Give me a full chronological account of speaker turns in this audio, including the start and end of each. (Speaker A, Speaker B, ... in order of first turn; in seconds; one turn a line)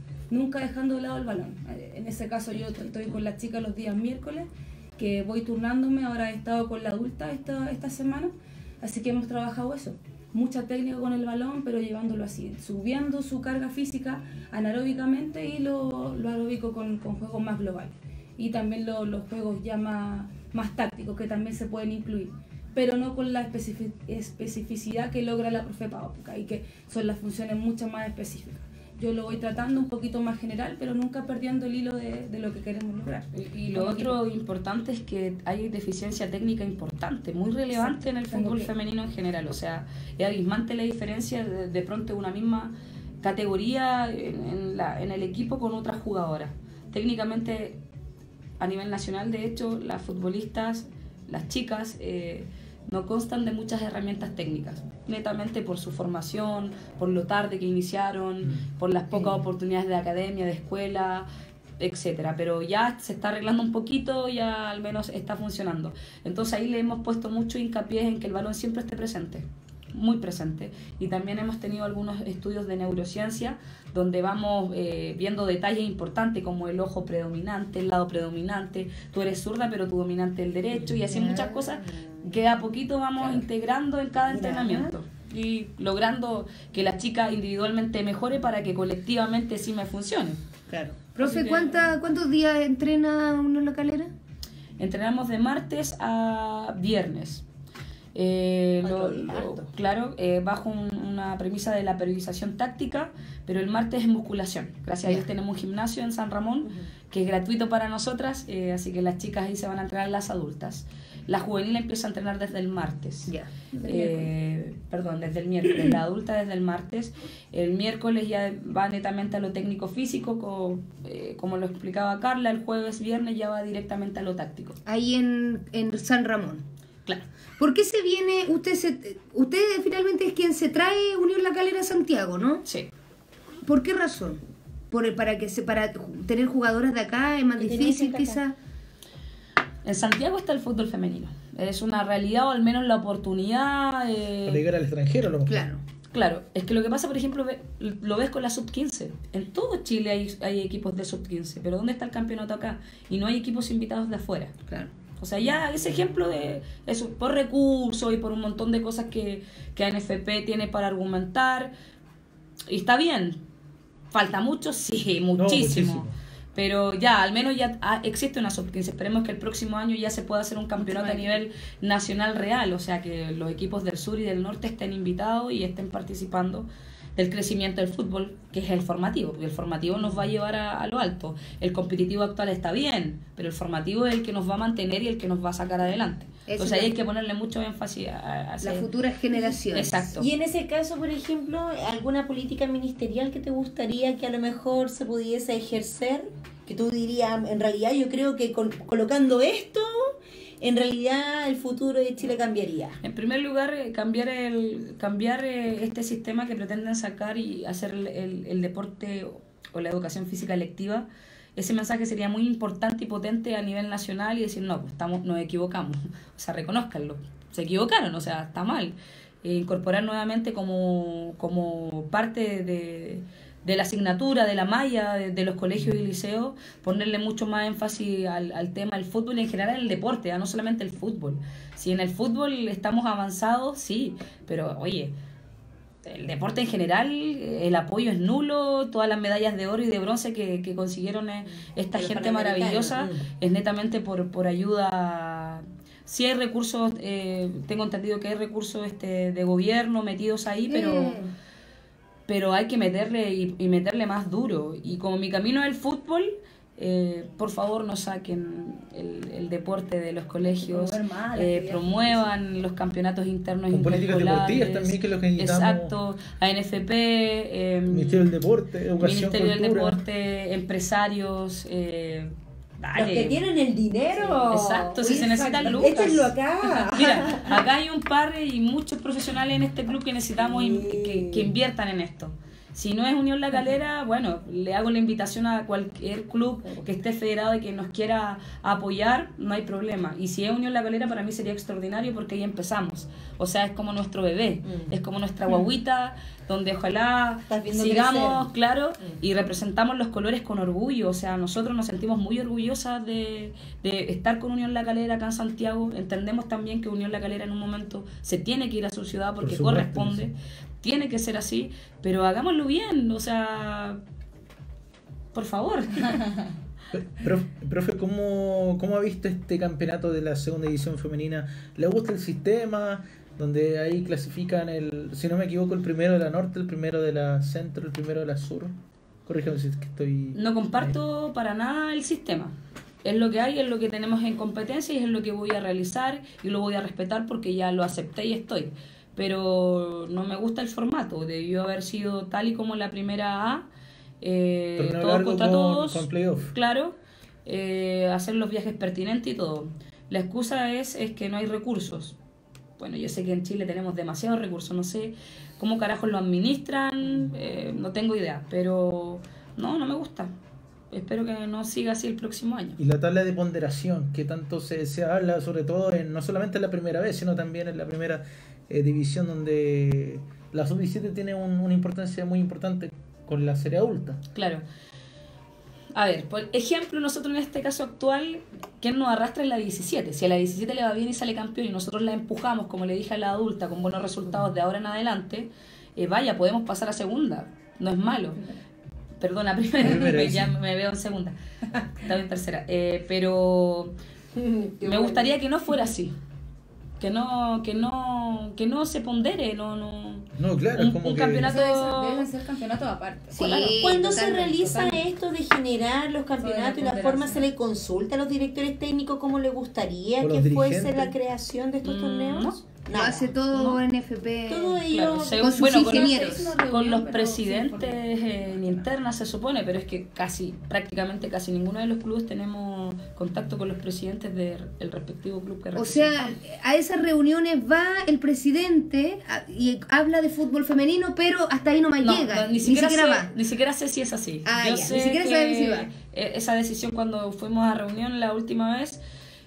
Speaker A: 0.3-34.2
Speaker B: 33.7-47.8
Speaker A: 37.7-38.7
Speaker B: 48.6-61.2
Speaker C: 58.4-58.7
Speaker D: 59.1-59.4
Speaker B: 61.8-90.4
Speaker E: 81.2-81.5
Speaker D: 84.2-84.9
Speaker E: 90.7-94.1
Speaker B: 91.2-91.8
Speaker B: 94.8-97.4
Speaker B: 98.1-113.3
Speaker D: 98.8-99.7
Speaker D: 106.6-106.9
Speaker B: 113.8-124.8
Speaker E: 124.8-126.6
Speaker E: 127.6-132.6
Speaker E: 133.6-134.4
Speaker E: 134.9-138.5
Speaker D: 137.6-138.4
Speaker B: 139.8-144.6
Speaker C: 144.4-145.7
Speaker E: 145.5-145.8
Speaker B: 146.1-154.6
Speaker B: 155.2-161.7
Speaker B: 162.7-163.4
Speaker B: 164.1-188.9
Speaker C: 165.3-166.1
Speaker A: 170.8-171.4
Speaker E: 186.5-186.9
Speaker E: 188.6-190.0
Speaker B: 189.6-190.3
Speaker D: 190.1-203.0
Speaker B: 203.0-235.1
Speaker B: 236.0-251.2
Speaker D: 241.9-243.2
Speaker E: 250.7-251.2
Speaker B: 252.3-268.4
Speaker A: 260.4-262.3
Speaker C: 263.7-265.9
Speaker C: 267.9-270.0
Speaker B: 269.0-273.4
Speaker D: 272.9-277.6
Speaker B: 274.3-314.0
Speaker A: 275.2-276.1
Speaker D: 280.4-281.5
Speaker D: 294.6-294.9
Speaker D: 297.5-298.5
Speaker C: 309.4-310.2
Speaker B: 315.3-316.2
Speaker C: 316.9-328.7
Speaker C: 329.2-330.9
Speaker B: 330.3-343.6
Speaker B: 344.2-352.1
Speaker C: 344.8-346.5
Speaker B: 352.8-360.3
Speaker B: 360.9-362.8
Speaker C: 362.8-374.2
Speaker B: 374.3-374.6
Speaker B: 375.9-388.4
Speaker B: 389.2-393.9
Speaker C: 389.8-390.5
Speaker D: 394.3-395.3
Speaker B: 394.8-396.1
Speaker B: 397.0-402.3
Speaker C: 400.4-401.5
Speaker A: 401.4-405.1
Speaker E: 403.3-404.6
Speaker B: 403.4-403.7
Speaker D: 403.8-413.3
Speaker A: 406.4-407.4
Speaker C: 410.2-411.1
Speaker B: 411.8-412.6
Speaker E: 412.9-416.5
Speaker B: 413.5-413.8
Speaker D: 414.5-415.9
Speaker B: 414.9-426.3
Speaker A: 415.6-418.9
Speaker E: 425.7-433.3
Speaker B: 432.0-439.0
Speaker E: 434.4-435.9